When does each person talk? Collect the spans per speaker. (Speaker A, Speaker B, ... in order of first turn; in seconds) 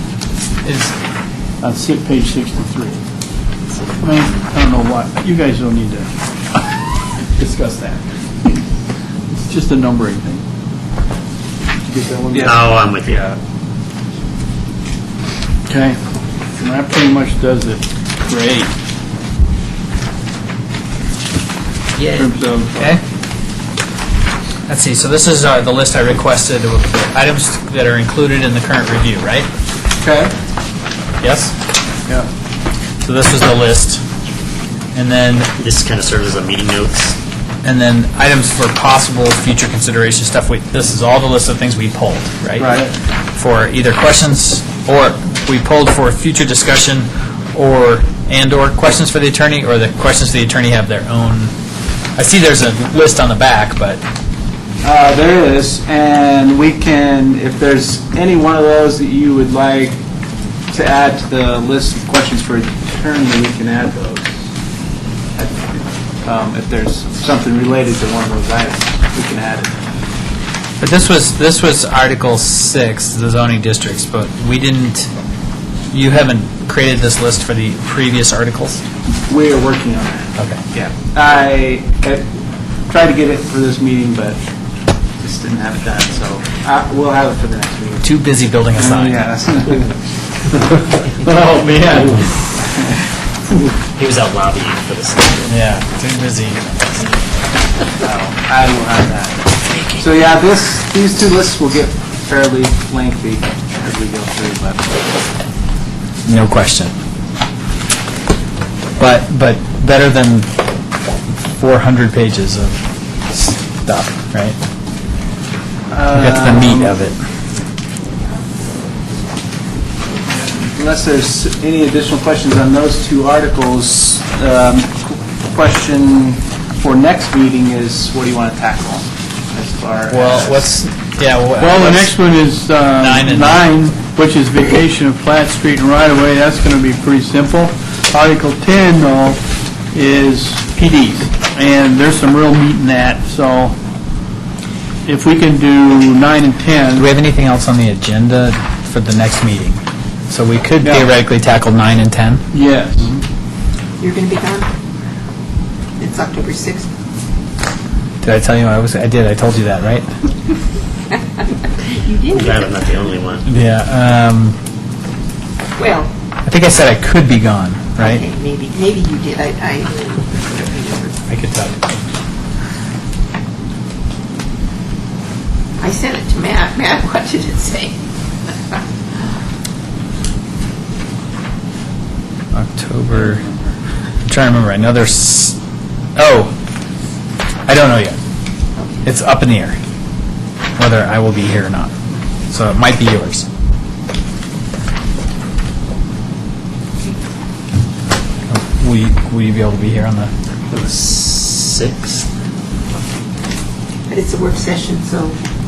Speaker A: 0.7-0.9, 24.7-29.5, 31.2-31.6, 33.0-34.0, 34.9-35.5, 37.6-42.8, 43.4-51.5, 52.2-54.0, 70.8-75.1, 75.9-78.8, 88.0-89.2, 91.2-92.3, 95.5-97.1, 106.3-106.9, 109.0-110.5, 111.6-114.6, 116.1-117.2, 130.1-132.1, 133.0-133.6, 147.0-152.5, 158.2-160.1, 163.5-164.6, 166.5-168.2, 171.3-171.9, 182.5-183.4, 184.3-185.6, 186.2-186.5, 187.7-188.2, 189.0-189.8, 190.8-191.9, 192.5-193.5, 198.5-200.3
Speaker B: 1.6-3.0, 4.0-6.1, 7.4-8.0, 9.3-10.4, 11.8-12.6, 15.7-16.0, 16.6-18.7, 22.1-22.8, 131.6-143.8, 145.1-147.1, 152.5-153.2
Speaker C: 12.3-13.4, 30.0-30.3, 42.6-42.9, 54.8-60.0, 60.7-64.4, 65.4-69.7, 79.3-82.2, 82.9-84.4, 85.2-88.0, 88.8-89.9, 98.0-105.0, 115.9-117.0, 120.6-130.7
Speaker D: 12.4-13.2, 22.0-22.3, 35.6-37.2, 94.0-95.5, 99.7-100.1, 162.3-163.4, 200.7-202.2
Speaker E: 154.0-154.7, 156.0-156.9, 161.9-162.8, 165.8-166.1, 168.0-171.2, 175.8-178.0, 204.1-205.4